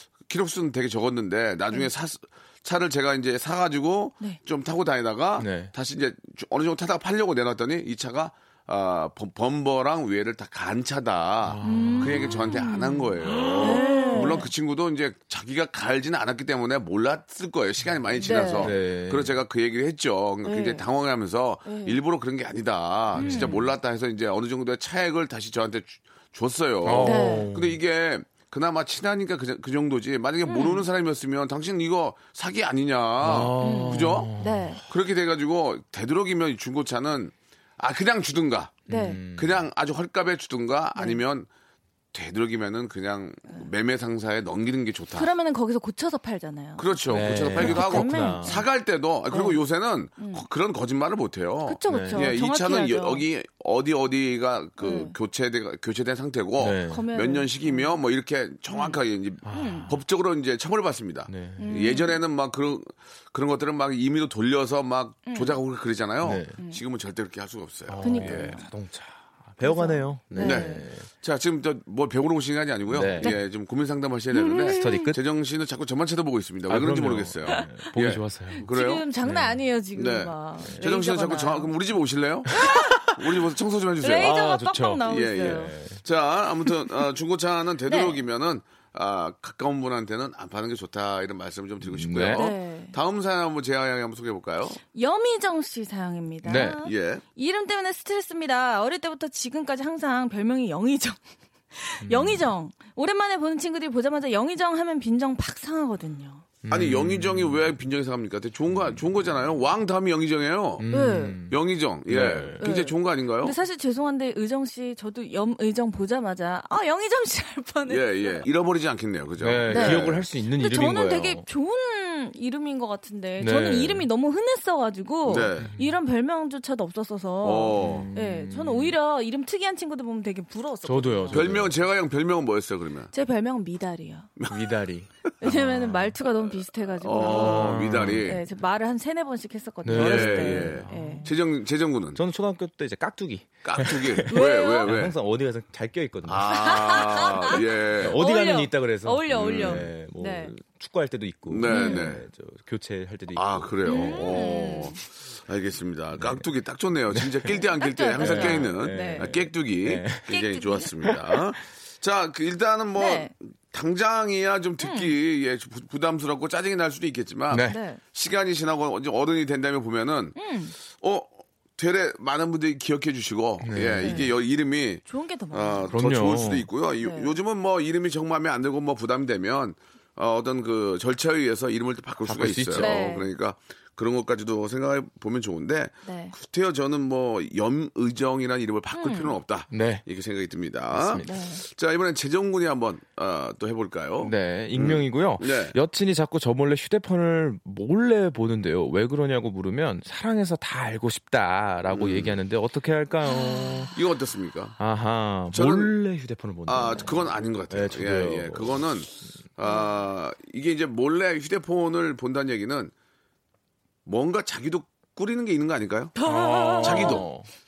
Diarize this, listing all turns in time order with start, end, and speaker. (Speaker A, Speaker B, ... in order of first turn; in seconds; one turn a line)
Speaker A: 0.2-34.3
Speaker B: 5.4-5.7
Speaker B: 11.4-12.5
Speaker C: 11.6-14.5
Speaker B: 13.2-14.4
Speaker C: 18.2-18.7
Speaker B: 18.5-19.4
Speaker C: 20.4-20.8
Speaker C: 21.6-22.0
Speaker B: 23.1-23.7
Speaker C: 23.1-23.6
Speaker B: 26.8-27.8
Speaker C: 27.0-27.5
Speaker C: 30.4-30.9
Speaker B: 33.2-34.8
Speaker C: 33.6-34.8
Speaker A: 34.9-38.8
Speaker B: 38.9-39.7
Speaker C: 38.9-39.2
Speaker A: 39.4-41.5
Speaker A: 42.1-45.3
Speaker C: 45.1-48.7
Speaker A: 46.8-68.5
Speaker B: 47.1-48.6
Speaker C: 49.3-49.6
Speaker C: 50.2-50.5
Speaker C: 51.6-53.2
Speaker B: 51.9-52.4
Speaker C: 54.8-55.1
Speaker B: 56.6-57.1
Speaker C: 56.9-58.0
Speaker C: 58.7-59.0
Speaker B: 59.5-60.0
Speaker C: 59.5-60.0
Speaker B: 61.3-62.0
Speaker C: 61.6-62.2
Speaker C: 65.3-65.6
Speaker B: 66.2-66.6
Speaker C: 66.6-66.8
Speaker B: 67.9-71.1
Speaker C: 68.0-68.7
Speaker C: 69.6-70.9
Speaker A: 70.4-79.0
Speaker B: 72.9-73.4
Speaker C: 74.3-75.2
Speaker B: 74.7-75.2
Speaker B: 76.7-78.7
Speaker C: 77.5-77.9
Speaker C: 78.5-81.7
Speaker B: 79.2-79.6
Speaker A: 80.0-82.5
Speaker B: 80.6-80.9
Speaker B: 82.5-83.1
Speaker C: 82.5-83.0
Speaker A: 83.2-84.4
Speaker C: 84.0-85.8
Speaker B: 84.1-86.0
Speaker A: 85.1-94.8
Speaker C: 87.9-88.2
Speaker B: 91.8-92.5
Speaker C: 92.3-93.0
Speaker C: 94.7-101.2
Speaker B: 96.4-96.8
Speaker A: 96.6-97.2
Speaker C: 101.7-106.5
Speaker B: 102.0-102.5
Speaker B: 106.6-107.8
Speaker A: 106.7-110.9
Speaker B: 108.7-109.1
Speaker B: 110.8-112.7
Speaker C: 110.9-111.4
Speaker A: 111.5-113.5
Speaker C: 112.6-118.5
Speaker A: 117.9-120.3
Speaker B: 119.4-121.5
Speaker C: 119.7-131.6
Speaker B: 123.4-124.1
Speaker A: 125.2-125.7
Speaker B: 125.6-126.0
Speaker A: 127.4-128.1
Speaker B: 127.8-129.0
Speaker B: 130.8-131.8
Speaker A: 131.3-133.1
Speaker C: 133.1-134.3
Speaker A: 134.4-134.7
Speaker B: 134.5-136.2
Speaker C: 135.4-141.3
Speaker A: 137.0-138.4
Speaker B: 137.2-138.4
Speaker B: 139.8-141.4
Speaker A: 139.9-142.2
Speaker B: 142.2-154.9
Speaker A: 143.6-145.1
Speaker C: 144.3-145.0
Speaker A: 146.3-148.2
Speaker C: 146.5-150.5
Speaker A: 149.3-149.9
Speaker A: 151.5-152.2
Speaker C: 151.6-152.1
Speaker A: 153.3-170.4
Speaker C: 153.8-155.0
Speaker B: 156.1-156.5
Speaker B: 157.1-157.6
Speaker C: 157.6-159.4
Speaker B: 158.2-160.4
Speaker C: 160.3-161.0
Speaker B: 161.0-161.4
Speaker C: 162.9-163.3
Speaker C: 164.8-165.1
Speaker B: 167.5-167.8
Speaker C: 167.7-168.0
Speaker C: 170.4-170.8
Speaker A: 170.9-195.8
Speaker B: 173.6-174.3
Speaker C: 174.0-174.3
Speaker C: 175.1-176.0
Speaker B: 175.9-176.7
Speaker C: 177.0-177.4
Speaker B: 182.2-183.0
Speaker C: 182.8-183.3
Speaker C: 186.1-186.3
Speaker C: 188.9-189.4
Speaker B: 189.7-190.0
Speaker B: 190.9-191.4
Speaker C: 191.2-191.7
Speaker B: 194.2-203.9
Speaker A: 201.9-202.4
Speaker C: 203.2-203.9
Speaker A: 203.9-204.8
Speaker B: 204.8-209.3
Speaker A: 205.5-205.9
Speaker A: 206.7-212.9
Speaker C: 209.6-209.9
Speaker A: 214.1-216.2
Speaker C: 216.2-217.2
Speaker B: 216.3-217.5
Speaker A: 216.8-217.3